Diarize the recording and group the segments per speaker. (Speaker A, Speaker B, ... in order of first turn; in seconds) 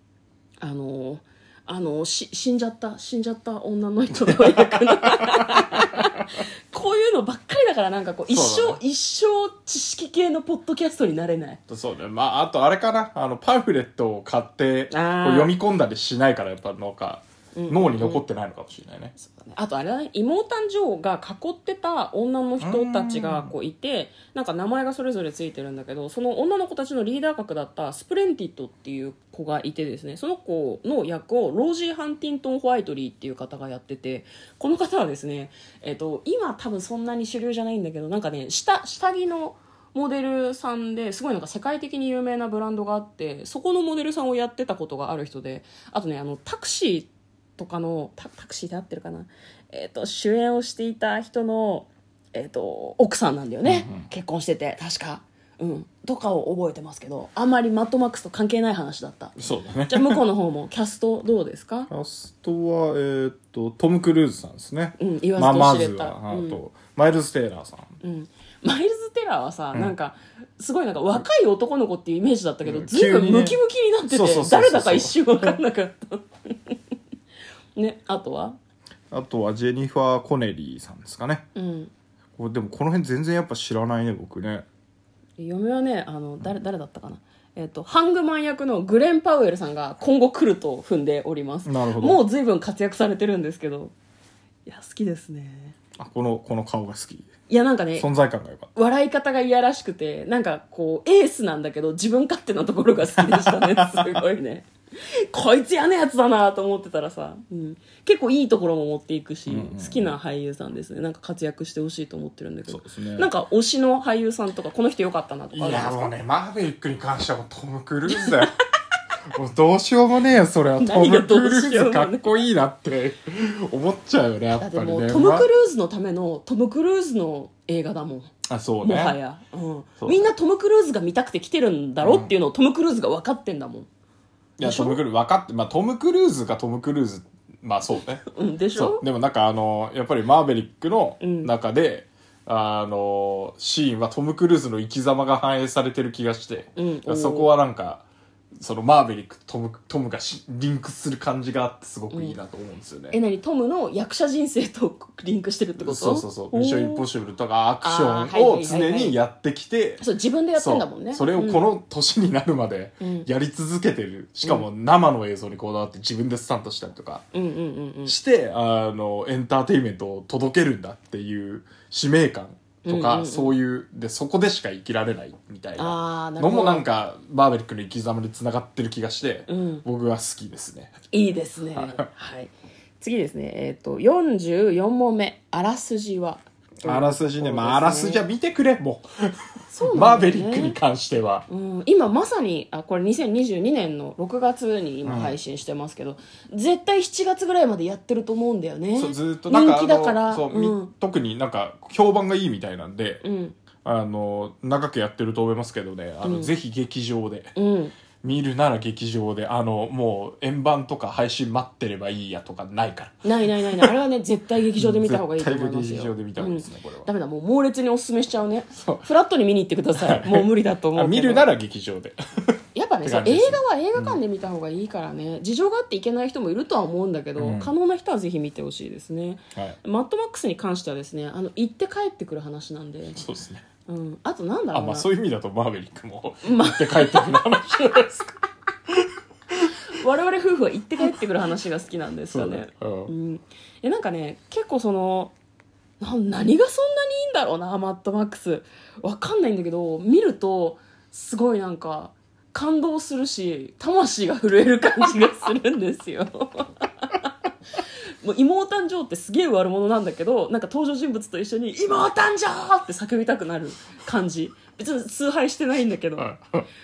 Speaker A: 0.6-11.6, 14.9-15.6, 17.6-18.2, 19.1-61.9, 65.0-66.6, 68.0-76.8, 77.8-78.6, 81.5-81.9, 85.4-93.9, 94.7-95.8, 97.5-98.1, 98.8-116.1, 118.1-118.5, 120.8-122.4, 124.6-133.9, 134.6-135.0, 138.3-139.0, 141.2-141.5, 146.8-147.5, 152.1-152.4, 153.1-157.1, 157.8-159.2, 160.0-161.7, 163.0-163.3, 167.3-168.1, 172.8-173.6, 175.8-176.9, 179.5-179.8, 181.1-188.2, 189.7-190.8, 191.5-200.9, 203.2-203.6, 206.2-206.5, 207.6-207.9, 213.2-221.5, 222.8-233.2, 233.9-235.1, 236.4-238.0, 239.9-245.3, 246.0-257.3, 258.2-266.3
Speaker B: 8.3-8.8, 11.7-19.1, 22.6-23.5, 53.6-54.1, 59.4-60.2, 61.9-68.0, 72.6-73.6, 74.1-75.6, 79.1-81.5, 82.4-84.7, 91.7-92.2, 96.0-97.3, 98.0-98.7, 103.2-104.2, 109.5-110.2, 112.7-113.3, 115.5-118.5, 119.3-125.5, 128.5-129.2, 130.0-130.3, 132.0-132.3, 134.6-148.1, 148.6-153.2, 155.8-160.0, 160.6-167.2, 168.1-180.9, 186.8-189.4, 189.9-191.4, 195.1-195.4, 198.9-203.2, 203.8-207.5, 208.2-213.9, 214.8-217.1, 218.8-219.1, 220.0-224.2, 227.4-227.7, 233.2-233.6, 234.7-238.4, 242.3-243.1, 266.2-266.7